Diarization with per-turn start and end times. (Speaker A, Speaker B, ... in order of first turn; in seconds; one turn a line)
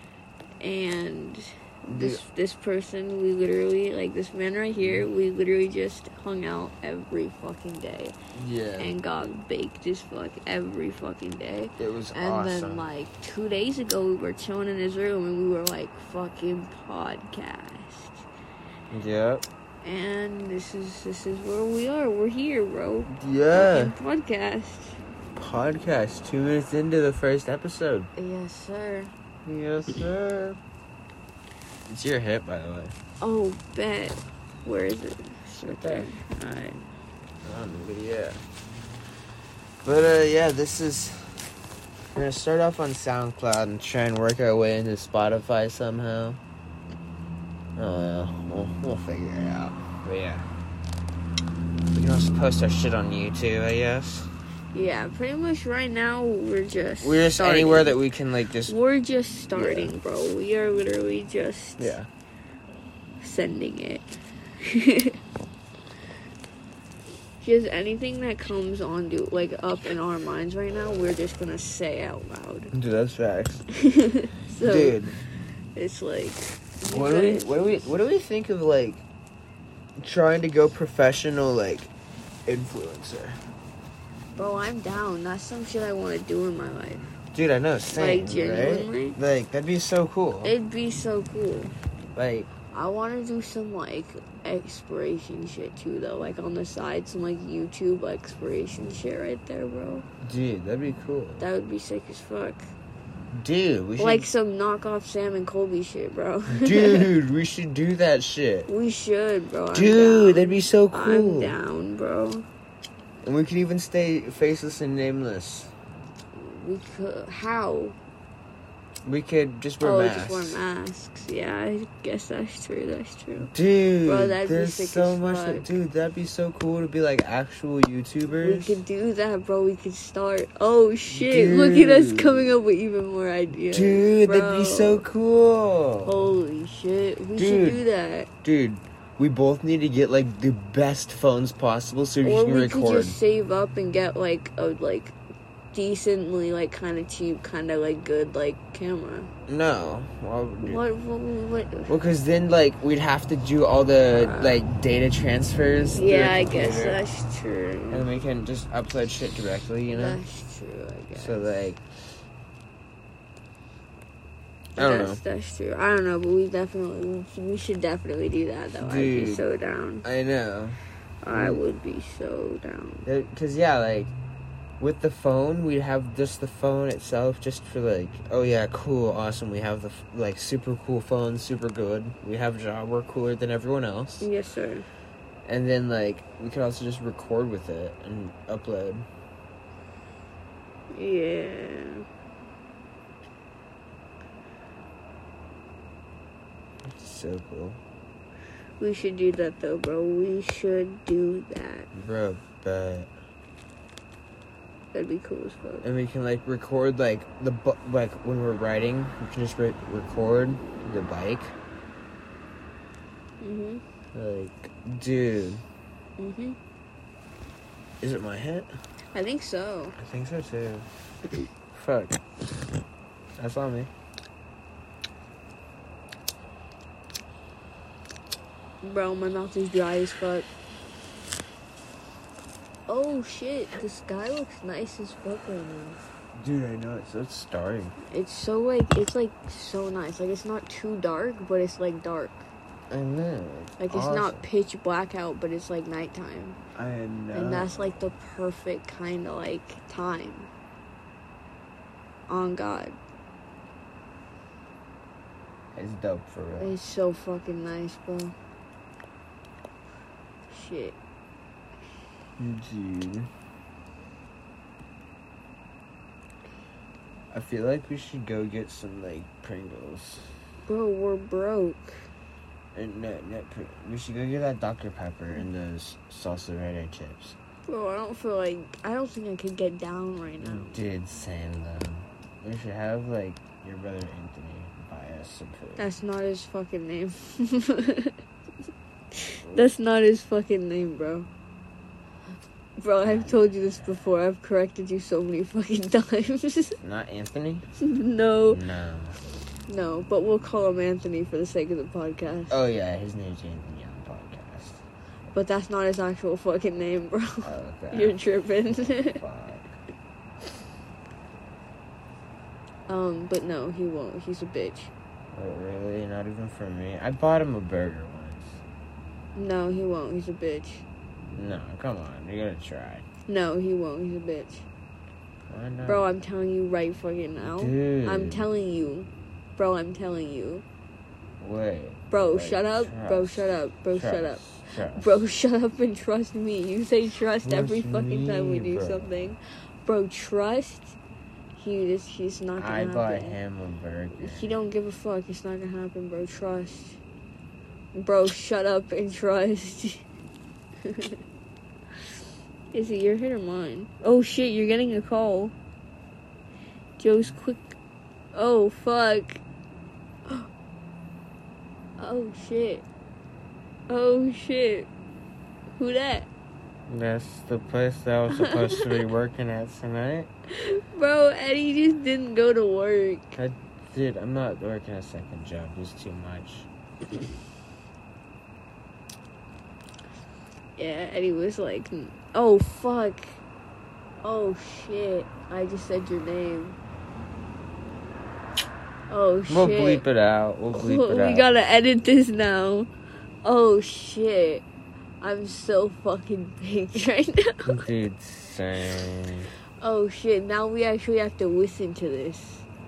Speaker A: 0.6-8.2
Speaker B: 1.9-2.2
Speaker B: 8.3-8.9
Speaker A: 8.8-18.3
Speaker B: 11.8-12.9
Speaker B: 18.9-19.4
Speaker A: 19.8-25.0
Speaker B: 23.1-23.9
Speaker B: 25.4-28.1
Speaker A: 28.1-29.1
Speaker B: 29.4-30.6
Speaker B: 31.9-33.0
Speaker A: 33.2-36.8
Speaker B: 35.6-36.1
Speaker B: 37.4-38.4
Speaker B: 39.8-41.3
Speaker B: 42.1-46.4
Speaker B: 47.8-50.5
Speaker B: 51.9-54.3
Speaker A: 54.7-58.0
Speaker B: 57.0-58.7
Speaker A: 58.7-62.0
Speaker B: 59.5-59.9
Speaker B: 61.8-62.1
Speaker A: 63.2-65.2
Speaker A: 67.4-72.7
Speaker B: 72.7-73.6
Speaker A: 73.7-75.0
Speaker B: 74.6-75.2
Speaker A: 75.7-77.7
Speaker B: 76.9-79.0
Speaker B: 80.0-81.9
Speaker B: 82.5-83.4
Speaker A: 84.4-87.1
Speaker B: 87.3-90.5
Speaker A: 88.0-89.2
Speaker A: 90.4-91.7
Speaker B: 92.2-92.5
Speaker A: 92.7-100.0
Speaker B: 100.2-101.5
Speaker A: 101.4-102.7
Speaker B: 103.3-104.3
Speaker A: 104.0-107.1
Speaker B: 106.5-108.7
Speaker A: 108.7-112.5
Speaker B: 109.7-111.5
Speaker B: 113.2-115.7
Speaker A: 116.3-118.0
Speaker B: 119.0-120.6
Speaker A: 119.8-123.5
Speaker B: 123.5-128.8
Speaker A: 124.0-125.7
Speaker A: 128.4-135.1
Speaker B: 131.1-132.5
Speaker B: 133.7-136.2
Speaker A: 136.1-138.3
Speaker B: 137.4-137.8
Speaker B: 138.4-143.2
Speaker A: 142.2-145.2
Speaker A: 145.7-149.3
Speaker B: 149.5-150.8
Speaker A: 150.6-151.9
Speaker B: 151.9-157.0
Speaker A: 154.2-154.6
Speaker A: 155.9-158.1
Speaker B: 157.9-160.2
Speaker A: 159.9-161.5
Speaker B: 161.1-161.8
Speaker B: 164.8-165.2
Speaker A: 164.8-170.1
Speaker B: 168.8-169.4
Speaker B: 170.0-170.8
Speaker A: 171.2-173.1
Speaker B: 171.3-171.6
Speaker B: 173.1-174.1
Speaker B: 174.8-184.3
Speaker A: 184.2-184.9
Speaker B: 185.4-189.1
Speaker A: 190.9-192.0
Speaker B: 196.9-197.8
Speaker A: 198.8-201.9
Speaker B: 201.9-203.1
Speaker A: 204.9-205.9
Speaker B: 205.8-211.6
Speaker A: 213.4-213.8
Speaker B: 214.1-215.6
Speaker A: 216.2-216.6
Speaker B: 218.0-218.7
Speaker A: 219.1-219.9
Speaker B: 219.9-220.9
Speaker B: 221.7-222.2
Speaker B: 223.4-223.9
Speaker A: 228.8-230.5
Speaker A: 232.9-236.0
Speaker B: 236.4-237.9
Speaker A: 238.1-242.5
Speaker B: 242.9-244.4
Speaker A: 243.8-246.6
Speaker B: 246.8-247.9
Speaker A: 247.3-250.5
Speaker A: 252.3-253.0
Speaker B: 255.8-256.8
Speaker A: 256.6-258.4
Speaker A: 260.5-261.0
Speaker B: 262.4-263.3
Speaker B: 267.3-270.3
Speaker A: 270.7-272.1
Speaker B: 272.7-277.4
Speaker A: 277.7-280.8
Speaker B: 280.4-285.9
Speaker A: 285.8-288.2
Speaker A: 289.1-291.3
Speaker B: 289.4-289.7
Speaker A: 292.8-296.8
Speaker B: 293.0-293.5
Speaker B: 296.8-297.6
Speaker A: 297.8-298.6
Speaker B: 298.5-299.2
Speaker A: 299.7-302.6
Speaker B: 302.5-304.8
Speaker A: 305.3-309.2
Speaker B: 307.4-309.8
Speaker A: 312.9-314.9
Speaker B: 315.3-318.6
Speaker A: 319.4-320.9
Speaker B: 321.3-323.1
Speaker A: 323.3-324.7
Speaker B: 325.5-326.1
Speaker A: 325.9-330.6
Speaker B: 327.4-328.5
Speaker B: 331.4-335.1
Speaker A: 332.1-341.0
Speaker B: 337.4-339.3
Speaker A: 341.6-343.4
Speaker B: 342.6-344.5
Speaker A: 344.2-347.0
Speaker A: 347.9-350.1
Speaker A: 350.9-351.2
Speaker A: 352.7-355.5
Speaker A: 357.0-357.8
Speaker A: 358.3-359.4
Speaker A: 362.0-362.9
Speaker A: 363.9-364.9
Speaker A: 365.8-366.3
Speaker B: 366.9-370.3
Speaker A: 368.3-369.1
Speaker A: 370.5-373.3
Speaker B: 373.3-376.7
Speaker A: 380.8-383.4
Speaker A: 384.2-386.8
Speaker A: 389.1-390.1
Speaker B: 389.5-391.5
Speaker A: 390.7-392.9
Speaker A: 393.4-394.7
Speaker A: 395.2-397.9
Speaker B: 397.7-399.5
Speaker A: 399.8-402.7